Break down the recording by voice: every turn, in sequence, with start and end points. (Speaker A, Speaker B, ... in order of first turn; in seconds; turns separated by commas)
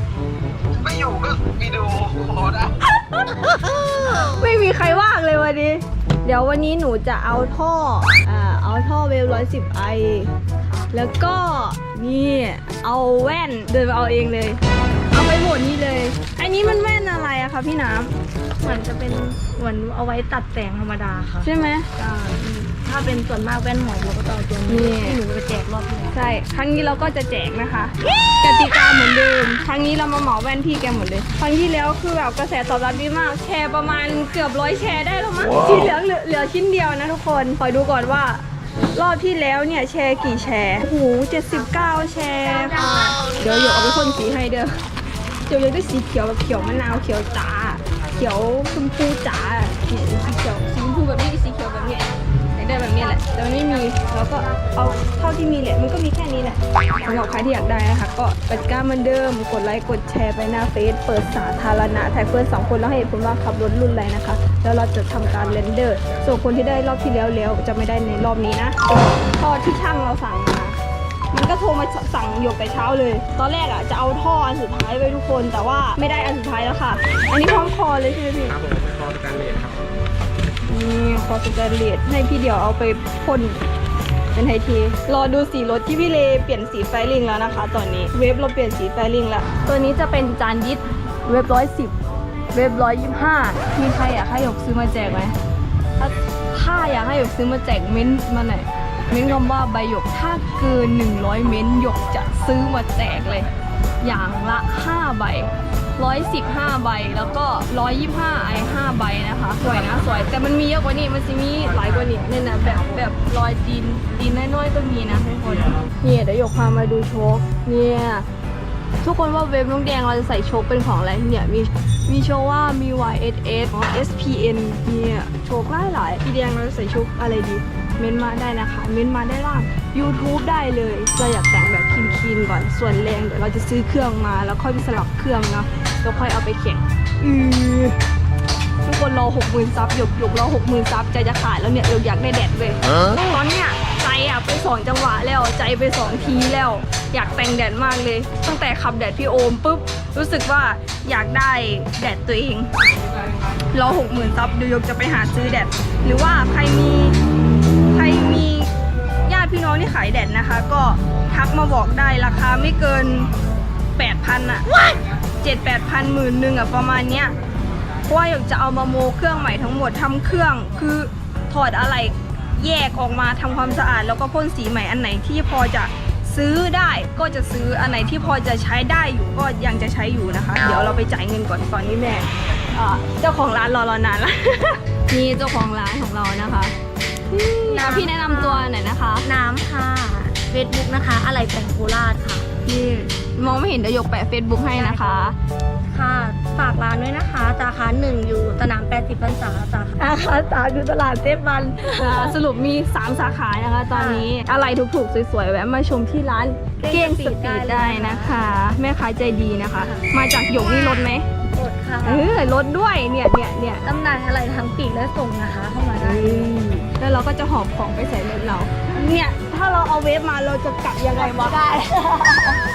Speaker A: 0.8-2.7, Speaker B: 2.8-10.3, Speaker B: 10.9-18.1, Speaker C: 18.6-26.2, Speaker B: 21.4-21.9, Speaker B: 24.7-25.2, Speaker B: 26.1-44.8, Speaker B: 45.5-68.8, Speaker C: 54.5-55.1, Speaker B: 69.4-70.8, Speaker B: 71.3-78.7, Speaker A: 78.7-79.7, Speaker B: 80.6-83.7, Speaker B: 84.3-92.0, Speaker B: 92.5-95.3, Speaker B: 96.0-103.5, Speaker B: 104.0-118.3, Speaker B: 119.0-138.0, Speaker B: 138.8-152.7, Speaker B: 153.7-157.2, Speaker B: 157.9-158.7, Speaker B: 159.2-163.3, Speaker B: 164.0-164.7, Speaker B: 165.4-167.3, Speaker B: 168.1-186.7, Speaker B: 187.3-189.3, Speaker C: 187.7-188.7, Speaker C: 189.2-192.5, Speaker B: 192.6-195.4, Speaker C: 194.7-195.3, Speaker C: 195.9-202.3, Speaker B: 201.8-211.3, Speaker C: 203.9-204.3, Speaker C: 206.8-208.4, Speaker C: 209.8-211.0, Speaker C: 211.5-212.3, Speaker B: 212.0-213.8, Speaker C: 213.8-216.5, Speaker B: 216.0-221.7, Speaker C: 221.3-222.6